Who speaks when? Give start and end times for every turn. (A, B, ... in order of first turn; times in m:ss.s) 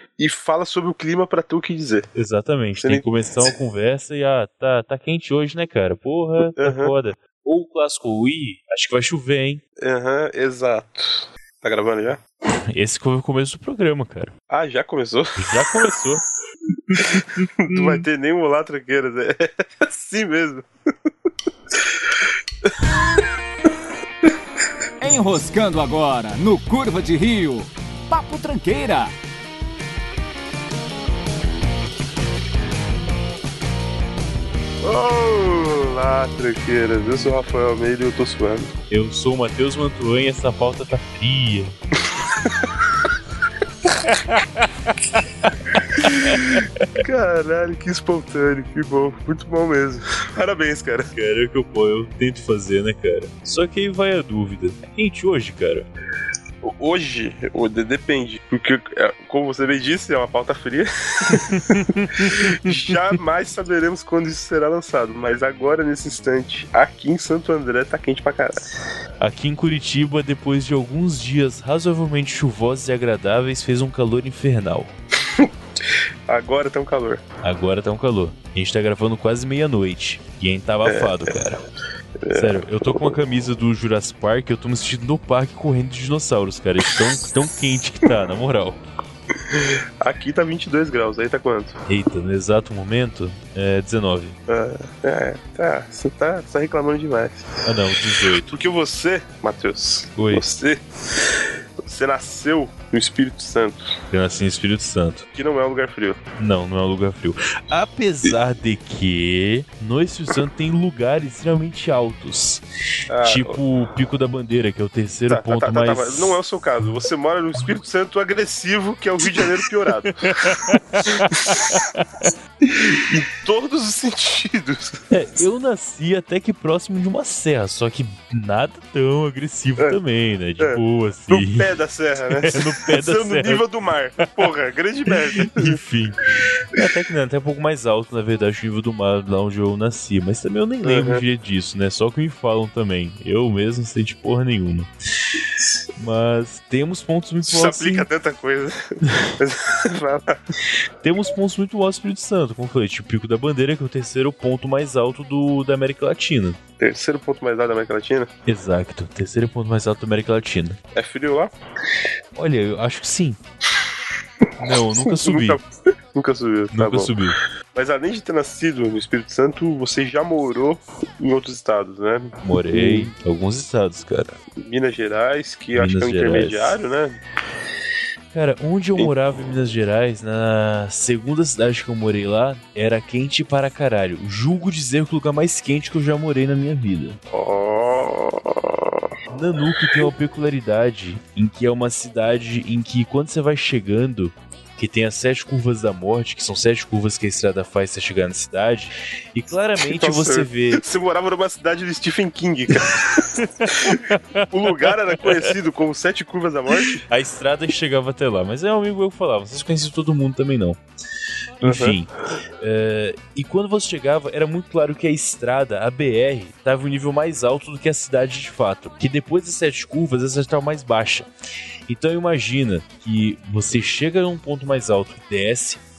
0:00.2-0:02.1 A
0:02.2-0:09.6 B
0:02.8-0:03.0 A
0:06.6-0:06.9 A
0:09.8-0:12.2 A
0:12.7-0:14.3 B
0:14.5-0:15.7 A
0:15.4-0:16.2 B
0:16.9-0:18.0 B
0:17.6-0:20.7 A
0:25.0-0:29.1 C
0:34.8-0:38.7 A
0:38.9-0:41.8 B
0:42.4-0:42.7 A
0:44.1-0:44.6 B
0:45.9-0:51.1 A
0:46.0-0:46.9 B
0:51.2-0:55.9 B
0:56.6-1:08.6 A
1:01.3-1:03.0 B
1:09.2-1:14.9 B
1:16.3-1:17.2 A
1:17.4-1:21.6 B
1:20.8-1:21.3 A
1:22.2-1:23.2 A
1:22.3-1:28.8 B
1:29.5-1:31.8 A
1:31.9-1:34.4 B
1:34.5-1:37.6 A
1:37.6-1:38.5 B
1:38.4-1:40.8 A
1:40.2-1:40.5 B
1:41.8-1:44.0 A
1:44.1-1:45.3 B
1:45.3-1:46.2 A
1:46.4-1:52.6 B
1:53.1-1:53.6 A
1:53.2-1:56.4 B
1:55.3-2:01.8 A
2:00.3-2:02.0 B
2:02.9-2:05.0 A
2:05.1-2:11.7 B
2:10.6-2:15.8 A
2:12.3-2:13.7 B
2:15.4-2:24.9 B
2:20.8-2:21.2 A
2:26.0-2:28.1 B
2:27.4-2:30.4 A
2:31.0-2:36.6 B
2:36.8-2:38.3 A
2:38.5-2:40.8 B
2:41.0-2:41.5 A
2:42.4-2:43.4 B
2:44.6-2:45.6 B
2:45.0-2:45.6 A
2:46.1-2:47.1 A
2:46.7-2:47.4 B
2:47.7-2:53.1 A
2:52.4-2:54.4 B
2:54.6-2:57.2 A
2:55.8-2:56.8 B
2:58.3-3:07.2 B
3:07.3-3:09.0 A
3:09.3-3:20.8 B
3:19.8-3:27.0 A
3:23.4-3:25.5 B
3:26.8-3:30.8 B
3:31.6-3:41.3 B
3:31.6-3:32.0 A
3:41.9-3:45.8 B